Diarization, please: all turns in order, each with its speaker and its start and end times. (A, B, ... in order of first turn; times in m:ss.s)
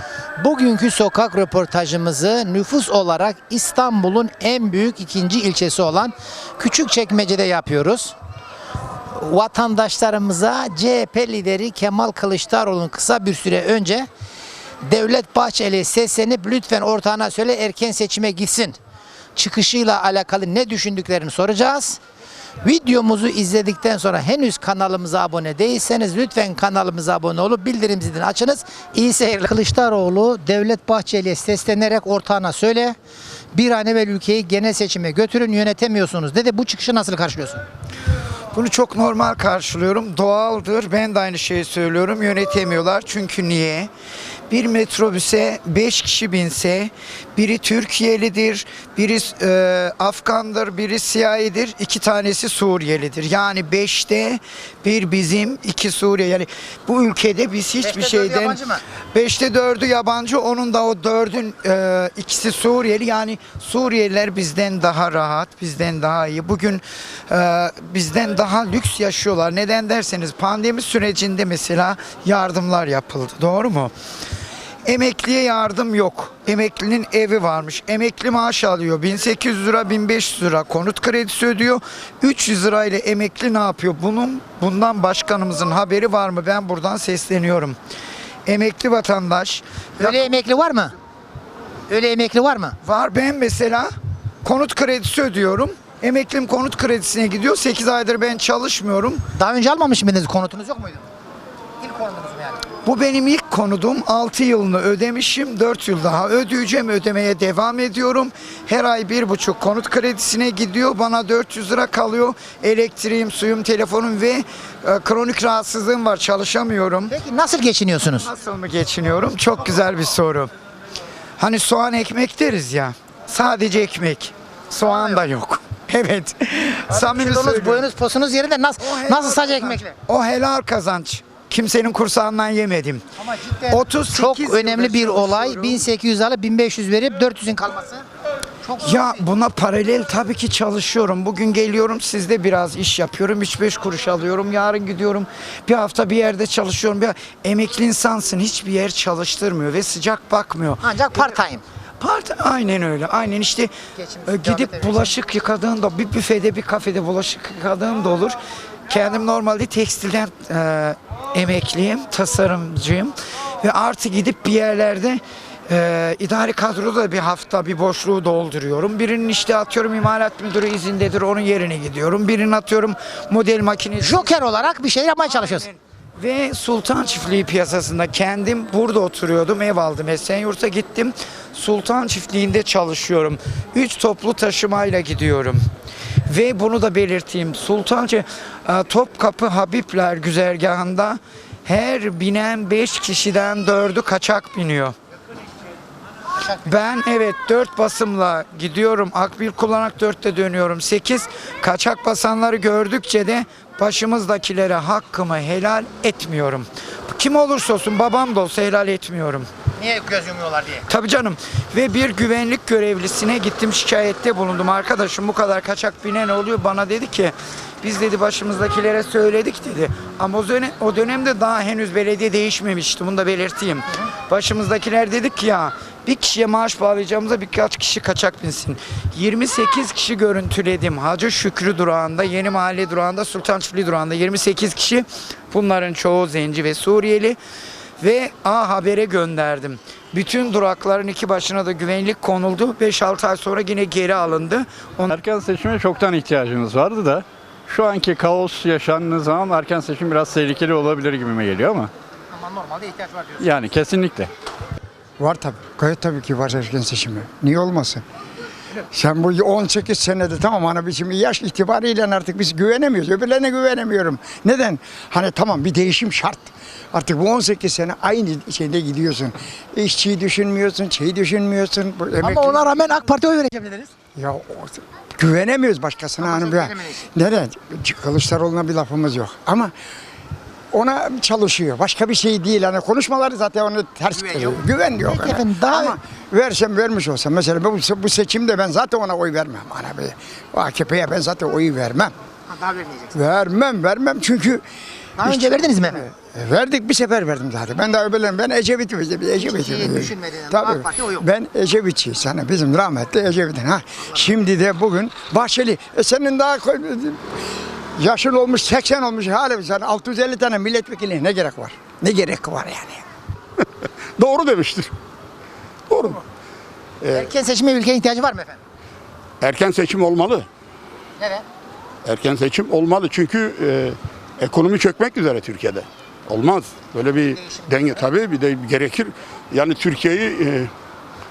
0:00.4-0:08.1 A
0:09.1-0:14.1 A
0:14.8-0:18.8 A
0:19.4-0:22.0 A
0:22.6-0:33.0 A
0:33.5-0:37.6 A
0:38.5-0:43.9 B
0:44.5-0:58.6 B
0:57.8-0:58.8 A
0:59.1-1:13.9 B
1:14.8-1:27.8 B
1:28.4-1:30.3 B
1:30.0-1:30.9 A
1:31.9-1:32.8 A
1:32.8-1:33.9 B
1:34.4-1:39.2 B
1:39.3-1:41.0 A
1:41.8-1:42.6 A
1:42.8-1:57.1 B
1:57.1-1:58.3 A
1:58.2-2:00.5 B
2:01.4-2:07.9 B
2:06.9-2:09.9 A
2:08.8-2:13.0 B
2:13.2-2:18.0 A
2:13.7-2:15.8 B
2:18.6-2:19.2 A
2:18.8-2:31.4 B
2:30.8-2:31.6 A
2:32.0-2:33.7 B
2:34.0-2:35.1 A
2:34.2-2:38.4 B
2:38.9-2:54.5 B
2:54.0-2:55.7 A
2:55.2-3:05.6 B
3:06.3-3:14.9 B
3:16.6-3:29.5 B
3:29.8-3:30.8 A
3:30.9-3:57.4 B
3:58.0-4:05.2 B
4:05.1-4:11.9 C
4:12.3-4:13.5 A
4:13.4-4:14.3 C
4:15.2-4:18.0 D
4:18.9-4:32.8 D
4:32.2-4:33.9 A
4:34.2-4:39.7 D
4:36.2-4:36.9 A
4:40.7-4:52.1 D
4:44.2-4:44.5 A
4:45.0-4:46.0 A
4:52.5-4:53.2 A
4:53.1-4:54.6 D
4:55.2-4:56.0 A
4:55.2-5:07.2 D
4:59.4-5:01.2 A
5:08.0-5:13.0 D
5:14.2-5:14.9 E
5:15.9-5:16.2 E
5:17.0-5:17.3 E
5:17.1-5:18.6 A
5:19.4-5:20.5 E
5:22.0-5:30.7 E
5:27.4-5:27.7 A